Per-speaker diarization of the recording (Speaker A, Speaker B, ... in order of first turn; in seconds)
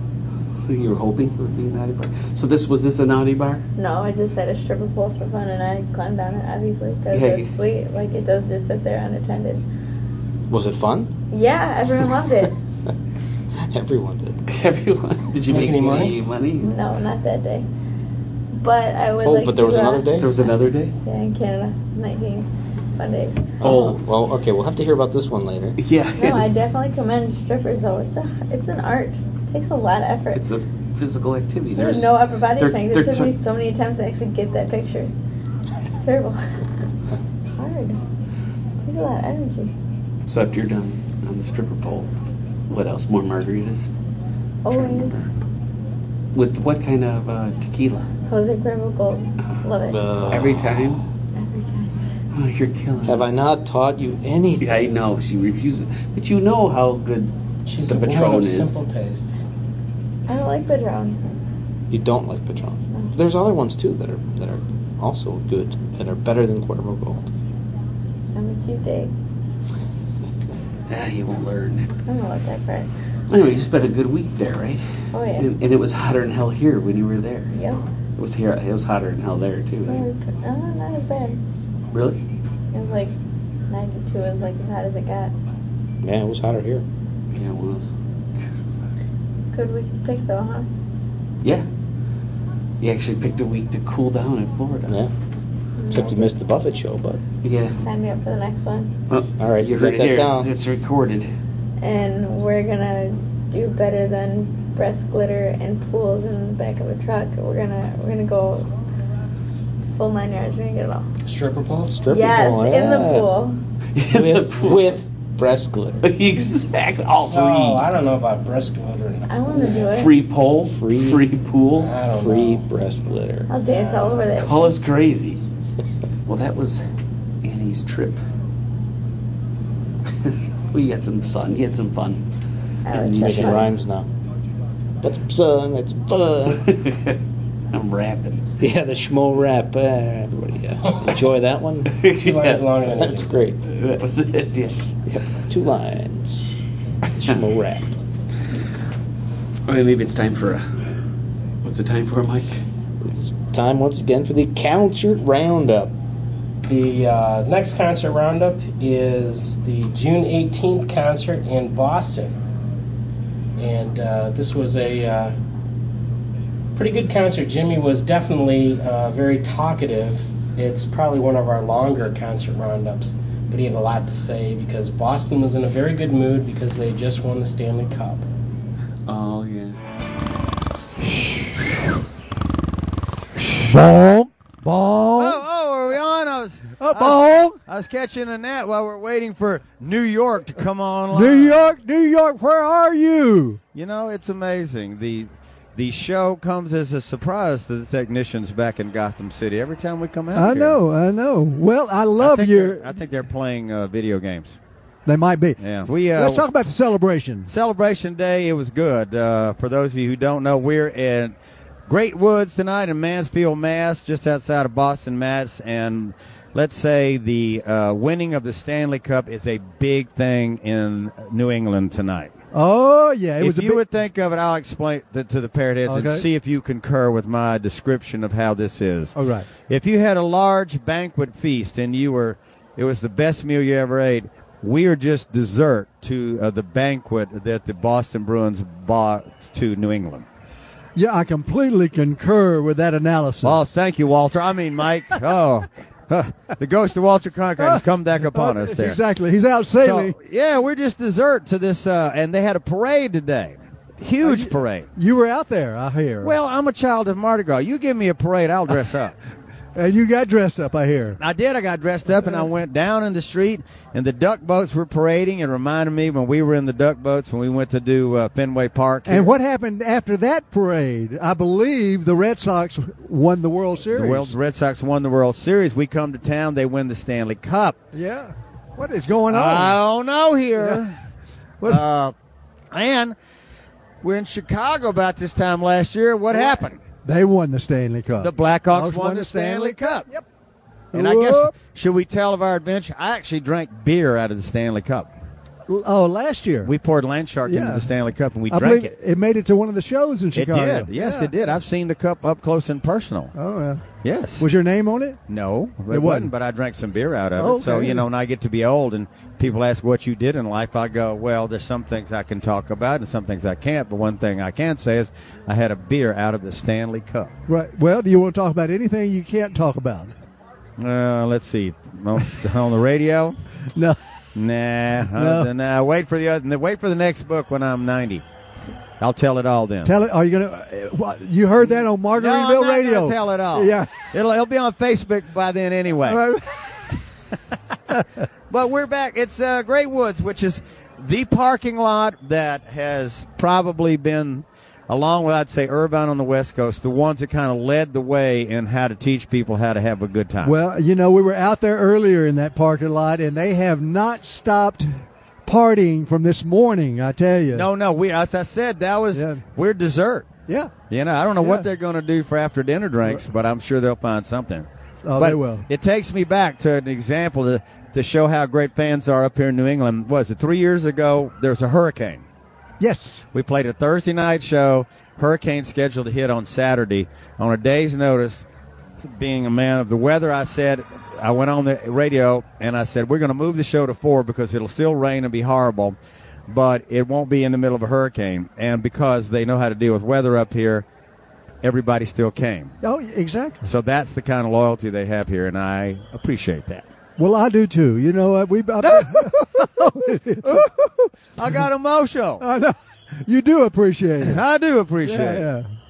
Speaker A: 0.7-3.6, 7.1-7.5, 14.5-16.7, 20.1-20.9, 23.6-24.1, 25.8-26.5, 30.3-33.3, 40.2-42.1, 42.7-43.9, 44.7-45.3, 46.3-48.1, 50.2-51.0, 52.3-53.5, 54.6-57.3, 57.9-58.8, 70.9-71.9, 73.3-77.6, 78.2-80.0, 81.9-82.2, 87.3-88.9, 92.8-95.0, 97.4-97.8, 99.1-101.3, 113.9-115.0, 116.0-117.9, 119.6-121.9, 124.3-125.4, 126.2-126.8, 127.4-128.2, 130.2-132.2, 132.9-133.7, 136.5-137.2, 137.7-138.5, 141.9-142.7, 143.7-144.8, 149.7-150.7, 151.6-152.6, 179.1-179.8
Speaker B: 3.8-9.6, 11.3-12.5, 16.6-17.7, 18.5-20.5, 21.0-23.5, 26.2-30.4, 31.8-35.1, 35.9-36.5, 37.6-38.0, 38.8-39.7, 44.6-45.2, 48.3-50.1, 51.4-51.9, 60.3-61.3, 68.3-69.1, 72.1-72.9, 75.1-75.5, 77.5-77.8, 79.9-81.4, 82.7-83.1, 83.7-85.3, 89.5-90.7, 95.8-96.3, 97.8-98.9, 101.8-108.7, 109.9-111.0, 112.1-113.6, 119.3-120.2, 123.5-124.8, 132.8-133.7
Speaker C: 10.5-11.1, 13.6-14.4, 19.2-20.4, 23.6-25.8, 49.9-51.0, 53.0-54.9, 61.9-67.3, 86.0-86.8, 95.9-97.2, 99.4-100.5, 111.9-113.3, 114.1-116.1, 120.7-121.2, 122.1-123.5, 132.9-134.1, 135.0-136.7, 138.6-142.0, 142.8-143.6, 145.1-146.4, 147.1-148.0, 153.0-155.9
Speaker D: 15.5-16.1, 57.6-59.4, 111.2-112.0, 117.3-119.3, 121.8-122.6, 123.7-124.2, 142.1-143.5, 156.7-162.3, 163.6-165.3, 166.7-178.3
Speaker E: 183.5-185.4, 186.8-187.6, 191.1-193.6, 200.3-203.0, 205.1-207.5, 222.5-223.9, 225.8-226.3, 229.1-229.5, 240.9-243.7, 247.6-250.2, 254.2-256.4, 259.7-261.2, 262.1-262.5, 269.0-274.3, 277.9-279.8, 280.6-280.8, 286.3-290.2, 290.9-291.6, 295.7-296.7, 297.4-297.9, 298.5-301.5, 303.3-305.2, 305.9-306.3, 307.4-308.1, 317.5-320.1, 325.1-325.5, 329.8-334.1, 336.0-336.9, 350.4-357.7, 359.1-359.5, 360.5-360.7, 361.4-361.7, 365.0-365.7, 372.8-373.2, 392.8-393.6, 397.2-400.8, 402.4-404.4, 405.0-405.6
Speaker F: 185.2-191.7, 193.7-200.8, 202.2-204.6, 205.6-206.4, 207.5-211.3, 211.9-222.3, 223.4-240.2, 243.4-249.0, 249.8-254.9, 256.2-259.1, 261.2-269.3, 273.9-277.8, 279.3-280.9, 281.7-282.1, 282.7-283.1, 284.0-286.8, 288.2-290.1, 290.9-295.1, 296.6-298.9, 300.3-303.3, 304.0-304.5, 305.3-317.3, 320.8-323.3, 324.3-328.2, 329.0-329.9, 331.6-336.2, 338.5-350.5, 357.5-372.2, 373.3-378.4, 379.0-386.0, 386.5-390.9, 391.6-392.7, 393.6-396.9, 398.8-402.4, 404.2-405.5